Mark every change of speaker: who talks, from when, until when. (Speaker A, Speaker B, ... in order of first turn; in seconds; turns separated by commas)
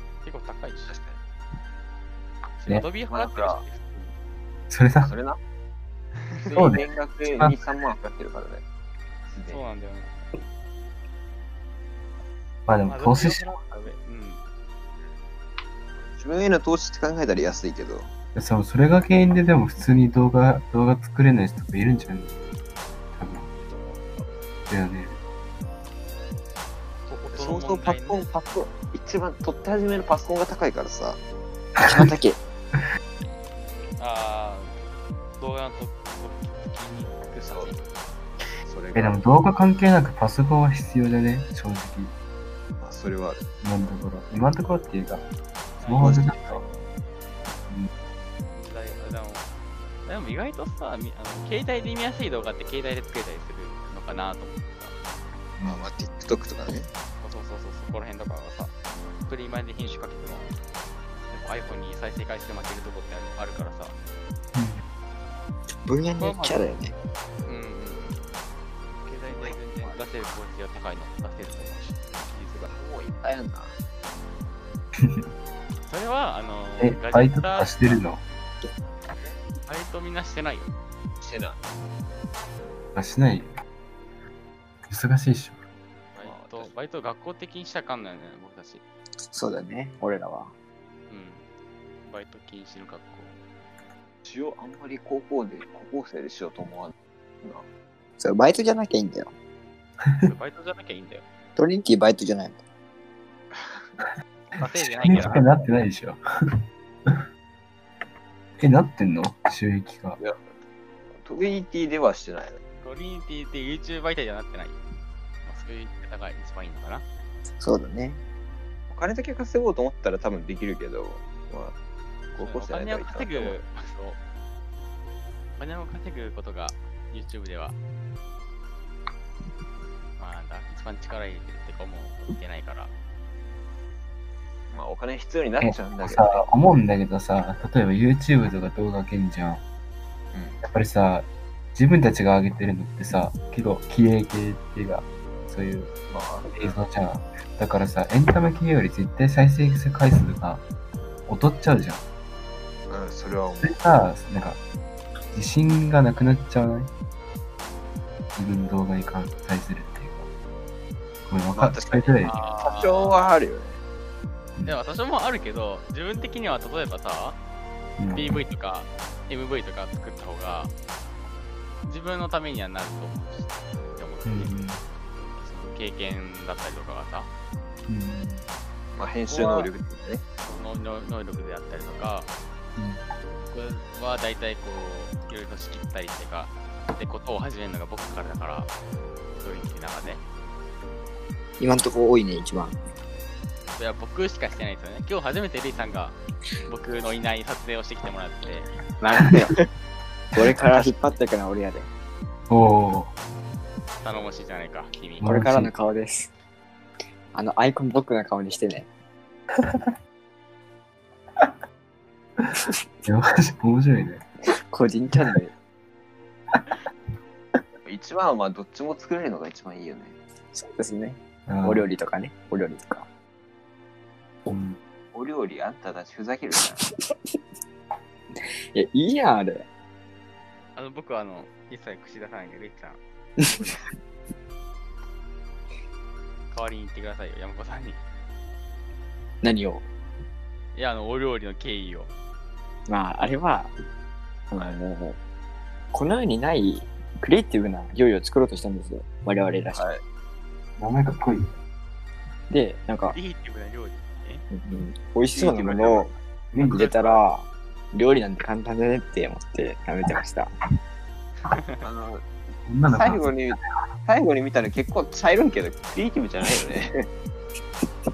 Speaker A: 0.2-0.9, Speaker B: 0.9-1.2, Speaker A: 2.6-4.1, Speaker B: 3.1-3.6, Speaker C: 4.7-5.1, Speaker B: 5.0-5.4, Speaker A: 6.2-6.6, Speaker B: 6.4-8.6, Speaker C: 6.5-7.6, Speaker B: 9.3-9.6, Speaker A: 9.5-10.2, Speaker C: 12.7-13.5, Speaker A: 12.8-14.4, Speaker B: 16.0-18.1, Speaker C: 18.3-22.3, Speaker C: 23.1-23.5, Speaker C: 24.7-25.2, Speaker A: 27.1-28.2, Speaker B: 27.3-31.2, Speaker C: 31.8-32.1, Speaker D: 31.8-32.4, Speaker A: 34.0-34.8, Speaker A: 35.4-37.8, Speaker B: 38.6-39.2, Speaker C: 38.9-42.1, Speaker B: 42.8-43.5, Speaker C: 43.6-45.2, Speaker A: 45.8-46.6, Speaker C: 45.8-46.6, Speaker B: 46.0-46.7, Speaker A: 48.5-49.5, Speaker A: 50.0-54.9, Speaker C: 55.6-55.9, Speaker B: 55.6-56.9, Speaker A: 57.2-58.7, Speaker A: 59.2-60.5, Speaker A: 61.3-63.9, Speaker C: 64.5-64.8, Speaker D: 65.8-66.9, Speaker A: 66.2-66.6, Speaker A: 67.5-68.2, Speaker A: 69.0-72.7, Speaker B: 69.4-70.3, Speaker B: 72.7-73.7, Speaker C: 75.0-75.2, Speaker A: 75.8-78.0, Speaker C: 76.8-78.2, Speaker A: 79.6-80.7, Speaker B: 81.2-81.6, Speaker C: 82.9-83.5, Speaker C: 84.9-85.6, Speaker A: 86.1-88.8, Speaker B: 86.2-86.7, Speaker D: 89.3-90.5, Speaker A: 91.1-91.5, Speaker A: 92.0-93.4, Speaker B: 94.2-97.7, Speaker D: 98.2-99.3, Speaker C: 100.0-100.3, Speaker A: 100.2-101.2, Speaker D: 101.5-102.6, Speaker A: 104.6-105.5, Speaker C: 104.6-106.2, Speaker C: 108.6-110.2, Speaker B: 110.2-110.5, Speaker B: 111.1-112.6, Speaker A: 112.8-114.8, Speaker A: 115.4-117.0, Speaker D: 117.6-118.2, Speaker B: 118.9-121.7, Speaker B: 122.3-123.6, Speaker A: 122.3-124.2, Speaker A: 125.6-127.8, Speaker A: 130.2-132.9, Speaker B: 134.7-136.4, Speaker C: 135.6-139.6, Speaker B: 140.3-140.6, Speaker C: 140.6-145.9, Speaker B: 146.1-146.8, Speaker C: 146.5-150.6, Speaker C: 151.3-152.0, Speaker B: 152.9-153.8, Speaker C: 153.6-154.6, Speaker C: 155.3-156.9, Speaker C: 158.3-160.3, Speaker C: 161.2-162.4, Speaker B: 161.5-163.8, Speaker A: 162.2-163.3, Speaker A: 164.7-167.4, Speaker C: 168.0-168.4, Speaker A: 168.1-170.7, Speaker A: 171.8-174.5, Speaker C: 174.2-174.8, Speaker A: 175.1-177.3, Speaker C: 177.9-178.4, Speaker B: 178.9-180.2, Speaker A: 179.3-179.7, Speaker A: 180.4-182.3, Speaker C: 182.8-183.0, Speaker A: 183.4-188.7, Speaker A: 189.4-190.2, Speaker D: 191.6-192.8, Speaker A: 193.8-196.2, Speaker A: 196.7-198.7, Speaker D: 199.0-199.6, Speaker D: 200.3-201.9, Speaker C: 202.5-203.1, Speaker A: 204.0-205.3, Speaker C: 205.2-205.7, Speaker D: 205.2-206.3, Speaker D: 207.3-208.9, Speaker C: 212.4-214.2, Speaker D: 214.7-215.5, Speaker B: 217.8-220.1, Speaker D: 220.5-223.1, Speaker C: 221.5-221.8, Speaker C: 224.5-224.8, Speaker B: 225.1-226.8, Speaker D: 228.3-229.7, Speaker A: 230.7-233.0, Speaker D: 233.4-233.6, Speaker A: 236.5-238.0, Speaker D: 239.4-239.8, Speaker A: 240.7-242.1, Speaker D: 242.9-243.7, Speaker D: 244.5-245.2, Speaker D: 245.9-249.8, Speaker B: 249.7-250.0, Speaker C: 250.8-251.5, Speaker D: 252.5-253.2, Speaker A: 253.1-254.4, Speaker D: 254.5-256.1, Speaker B: 255.3-256.1, Speaker C: 256.5-256.8, Speaker D: 256.7-260.5, Speaker A: 256.7-257.2, Speaker A: 261.5-261.8, Speaker B: 261.8-262.2, Speaker C: 262.6-263.7, Speaker B: 262.9-266.9